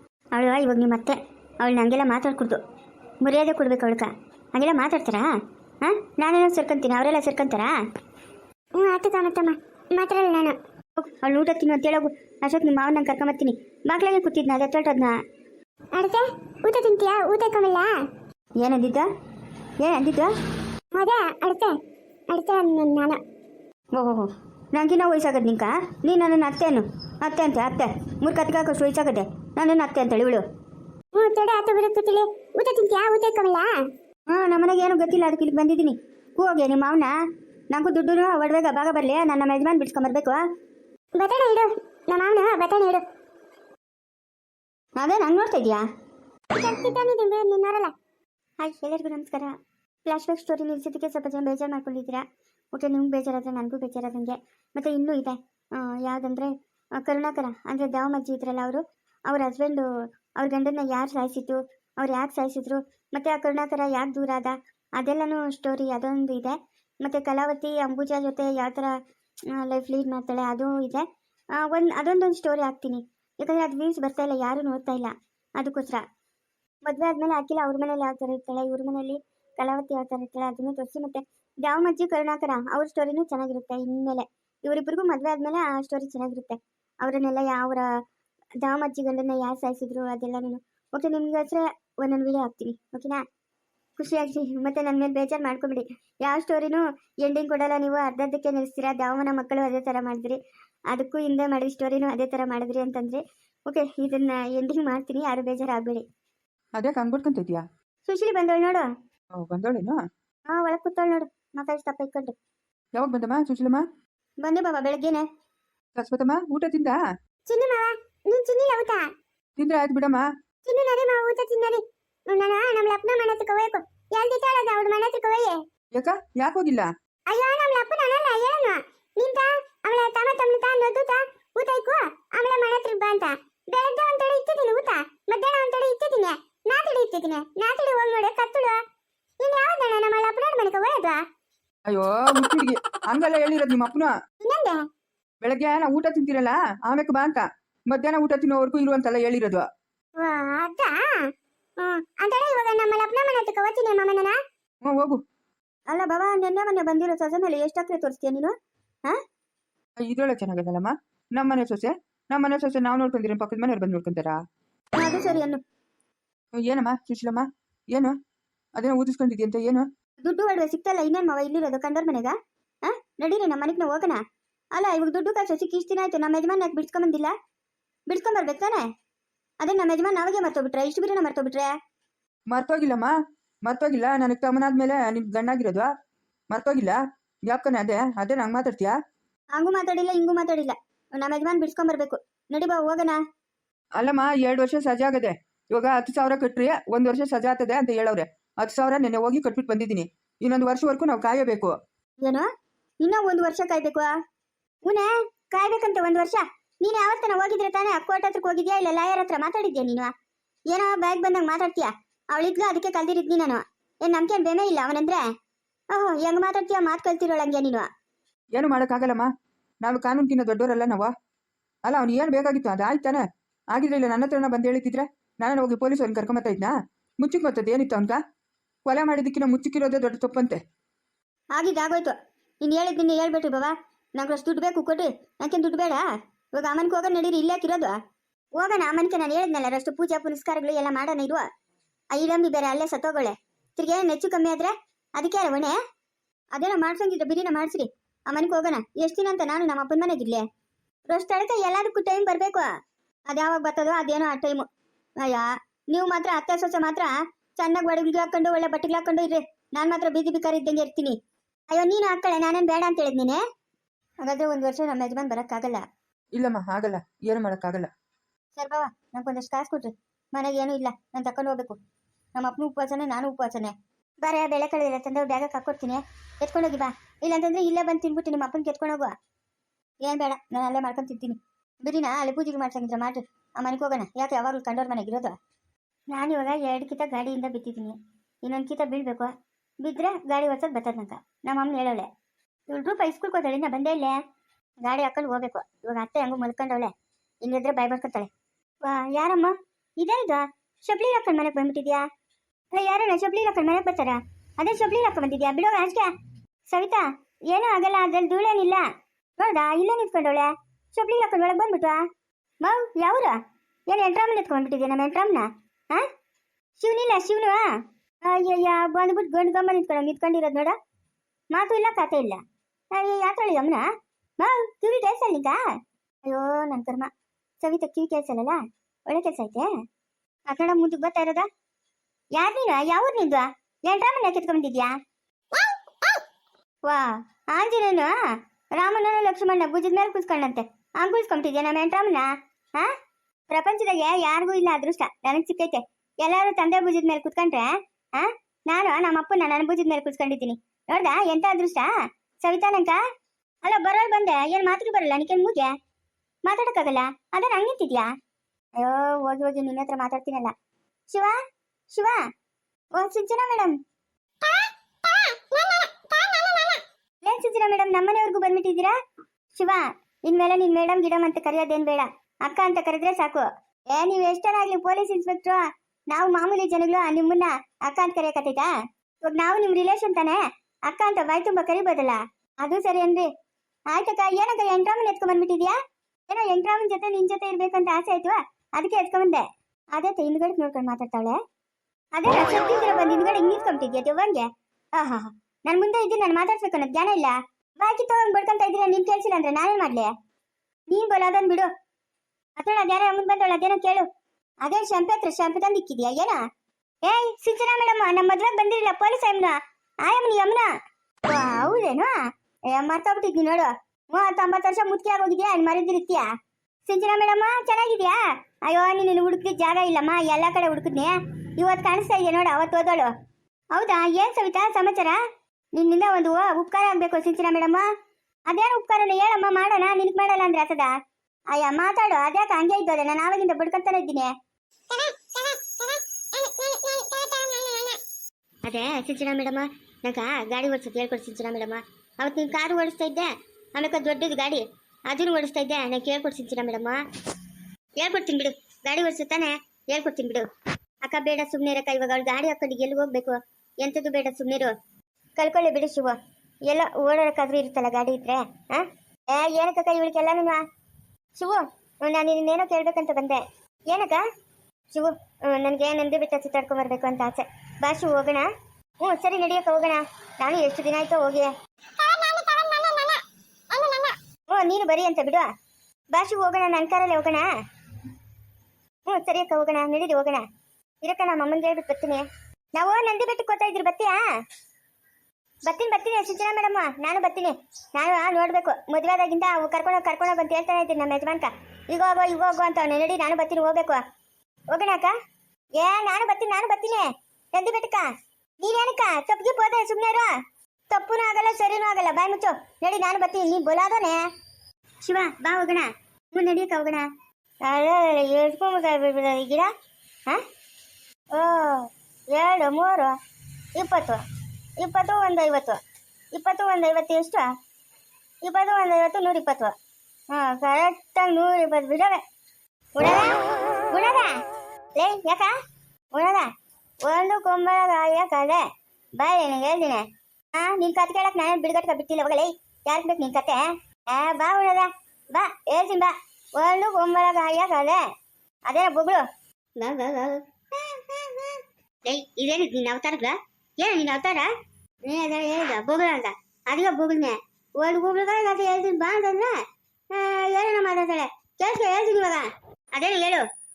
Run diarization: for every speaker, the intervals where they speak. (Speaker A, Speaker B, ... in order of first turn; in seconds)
Speaker A: 0.3-2.6, 3.2-5.3, 5.8-7.7, 11.0-15.2, 18.6-19.1, 19.8-20.3, 23.9-30.4, 34.3-37.1, 37.7-40.4, 45.0-45.8, 48.6-49.5, 50.1-52.2, 52.7-69.0, 69.5-71.0, 71.6-76.0, 76.9-87.9, 88.6-93.2, 94.0-100.4, 100.9-106.0, 108.1-108.9, 110.5-112.3, 114.4-115.2, 155.9-158.5, 165.0-165.6, 170.2-174.2, 174.7-177.3, 178.1-178.9, 179.6-181.7, 189.6-193.2, 203.0-204.1, 204.9-210.1, 210.7-215.2, 215.9-217.9, 231.6-238.0, 238.6-241.4, 242.1-245.8, 246.5-250.4, 251.1-252.7, 253.3-254.7, 255.2-261.2, 261.7-263.4, 264.2-265.8, 268.6-271.8, 272.4-279.1, 280.0-285.4, 286.1-292.1, 292.7-294.2, 294.8-298.3, 298.8-302.1, 302.7-306.1, 306.7-308.9, 309.4-312.0, 312.6-316.0, 316.8-320.8, 321.5-322.4, 322.9-323.9, 324.4-325.6, 326.3-329.7, 330.5-331.5, 332.4-334.9, 336.9-338.1, 338.7-342.9, 343.5-351.9, 352.4-353.0, 353.6-355.7, 356.5-358.1, 358.8-360.5, 361.1-361.4, 361.9-362.2, 363.0-363.8, 367.2-368.9, 369.6-378.7, 379.2-383.3, 383.9-385.8, 386.3-391.4, 392.2-400.1, 400.9-401.7, 402.6-404.1, 404.6-406.4, 407.1-410.7, 411.3-412.1, 412.7-416.3, 416.9-423.1, 423.7-425.2, 425.8-427.9, 428.5-430.9, 431.5-434.3, 438.6-447.0, 448.0-450.5, 451.1-454.7, 455.4-460.6, 461.4-464.2, 464.9-468.5, 469.0-471.5, 474.5-475.5, 476.1-477.5, 479.1-480.5, 481.0-482.2, 482.8-484.2, 485.7-494.0, 494.7-495.1, 495.8-498.1, 498.6-500.3, 500.9-504.2, 505.0-507.1, 507.6-509.7, 511.3-513.1, 513.8-514.2, 514.8-515.8, 516.3-517.5, 518.4-519.7, 520.3-522.2, 523.0-524.4, 525.0-525.5, 526.1-526.5, 527.1-528.6, 529.2-538.0, 538.7-539.3, 539.8-544.5, 545.1-549.6, 550.1-553.4
Speaker B: 8.8-10.6, 15.9-17.9, 20.9-21.8, 22.3-23.2, 31.1-33.8, 41.2-43.0, 46.5-47.9, 117.5-119.1, 120.7-125.6, 127.3-138.8, 139.4-141.2, 144.4-144.8, 150.2-154.4, 364.4-366.8, 434.9-438.0, 472.0-473.2, 473.7-474.1
Speaker C: 106.8-107.6, 109.4-110.0, 113.0-113.8, 116.0-117.0, 119.6-120.3, 125.9-126.9, 141.9-144.2, 145.4-149.7, 154.8-155.2, 160.0-164.4, 166.6-168.2, 168.8-169.9, 182.5-183.1, 183.7-185.9, 186.5-188.9, 194.0-201.7, 218.6-219.3, 219.8-221.1, 221.9-228.2, 228.9-230.6, 266.3-267.9